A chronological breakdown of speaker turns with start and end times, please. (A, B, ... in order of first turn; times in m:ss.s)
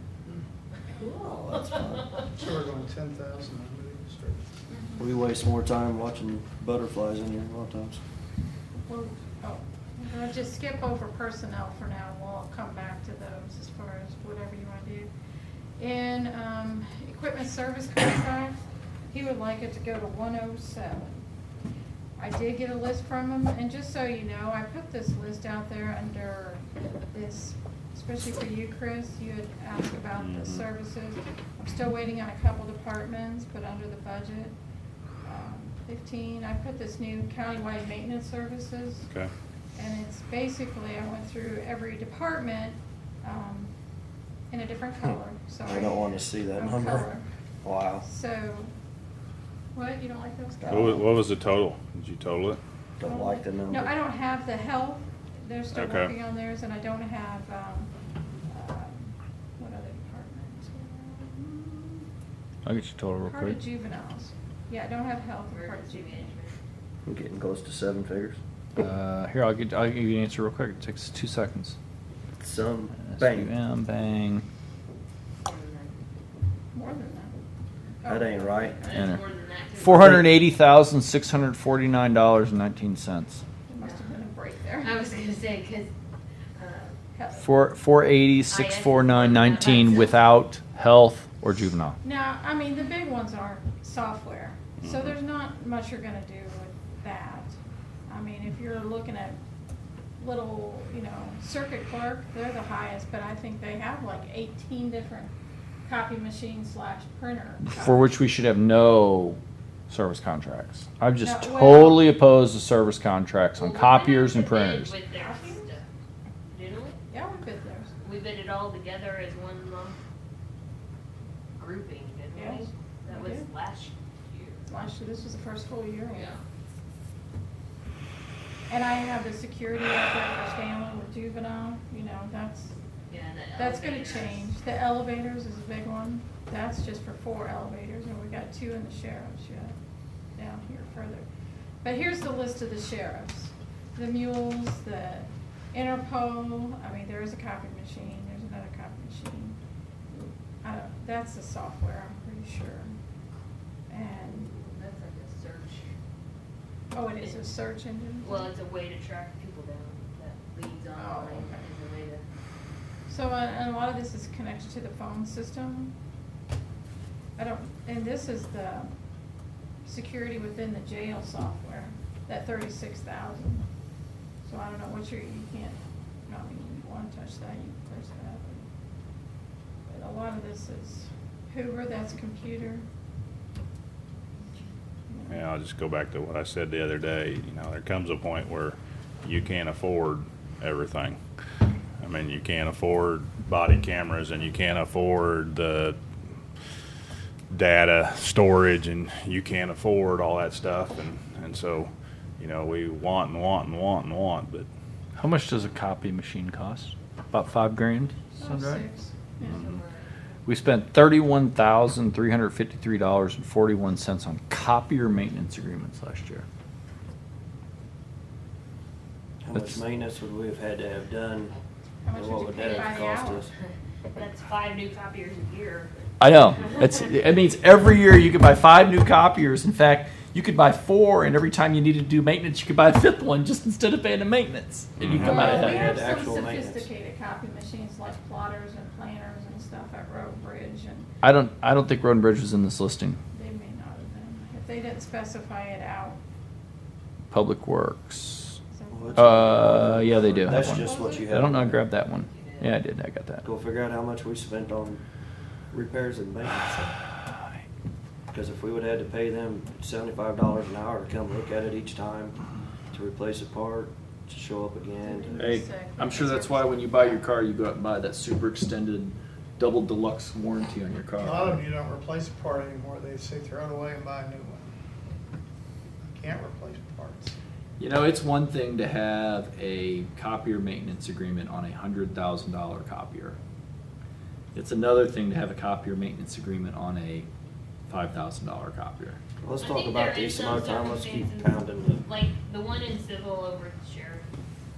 0:01.0-0:01.7 A
0:01.3-0:02.1 B
0:02.3-0:04.4 C
0:04.7-0:05.0 D
0:05.0-0:08.0 B
0:08.9-0:15.1 D
0:15.8-0:18.6 D
0:19.1-0:21.2 D
0:22.2-0:34.6 D
0:30.2-0:30.6 E
0:35.2-0:39.1 D
0:39.8-0:43.7 D
0:44.5-0:47.2 D
0:45.6-0:47.1 B
0:47.6-0:48.0 B
0:48.0-0:48.7 D
0:49.7-0:51.2 D
0:50.6-0:51.0 B
0:50.7-0:52.6 E
0:53.0-0:54.0 B
0:53.0-0:57.9 D
0:55.7-0:56.1 E
0:58.5-1:02.1 D
1:02.6-1:03.6 F
1:03.2-1:06.4 D
1:05.5-1:06.6 A
1:07.1-1:08.4 B
1:08.8-1:11.8 F
1:12.4-1:13.5 B
1:13.0-1:14.4 F
1:15.4-1:16.0 A
1:16.7-1:17.4 D
1:18.0-1:19.1 D
1:18.1-1:18.8 B
1:18.8-1:20.3 A
1:18.9-1:19.2 F
1:19.8-1:23.4 F
1:23.7-1:25.0 D
1:23.8-1:24.1 A
1:24.8-1:25.9 A
1:26.6-1:27.0 A
1:27.2-1:27.6 D
1:27.4-1:32.0 F
1:28.5-1:30.2 A
1:32.0-1:37.5 D
1:34.8-1:35.2 E
1:38.1-1:39.4 D
1:40.2-1:45.3 D
1:45.9-1:48.1 D
1:47.6-1:49.4 F
1:49.9-1:55.0 F
1:51.2-1:52.1 D
1:53.6-1:55.9 A
1:55.1-1:55.7 D
1:56.5-1:57.0 A
1:57.1-1:58.0 D
1:58.0-2:00.0 A
2:01.6-2:04.7 A
2:02.4-2:03.5 D
2:04.7-2:06.4 D
2:06.1-2:06.4 A
2:08.7-2:12.8 D
2:13.1-2:14.5 A
2:13.6-2:19.8 D
2:20.4-2:21.2 D
2:21.8-2:29.6 D
2:30.1-2:32.9 D
2:33.9-2:34.5 D
2:34.3-2:35.9 A
2:36.9-2:38.5 D
2:38.2-2:42.2 A
2:40.9-2:41.6 D
2:43.1-2:45.9 D
2:47.4-2:48.9 D
2:49.8-2:53.6 D
2:54.4-2:58.7 D
2:59.9-3:02.8 D
3:05.1-3:05.4 D
3:05.3-3:11.2 E
3:12.0-3:16.0 E
3:17.5-3:24.7 E
3:25.2-3:28.8 F
3:28.4-3:29.6 D
3:29.4-3:30.3 A
3:29.4-3:29.8 E
3:30.4-3:36.5 F
3:39.4-3:41.5 B
3:39.5-3:39.8 F
3:42.0-3:43.5 D
3:42.1-3:43.5 B
3:42.5-3:43.0 A
3:43.7-3:45.9 A
3:46.2-3:55.9 F
3:46.6-3:46.9 A
3:55.0-3:55.5 E
3:55.2-4:01.1 D
3:55.2-3:56.9 B
4:01.2-4:03.2 F
4:03.3-4:06.2 D
4:07.3-4:08.6 F
4:08.7-4:11.6 D
4:08.9-4:11.9 B
4:09.2-4:13.4 F
4:12.1-4:12.8 A
4:13.4-4:15.0 B
4:15.7-4:16.9 B
4:18.3-4:22.4 B
4:22.9-4:25.6 B
4:25.0-4:27.2 D
4:25.4-4:31.6 F
4:31.2-4:34.7 C
4:36.0-4:37.4 C
4:37.8-4:43.4 F
4:44.5-4:47.3 F
4:47.9-4:49.2 F
4:49.4-4:52.0 B
4:49.6-4:54.2 A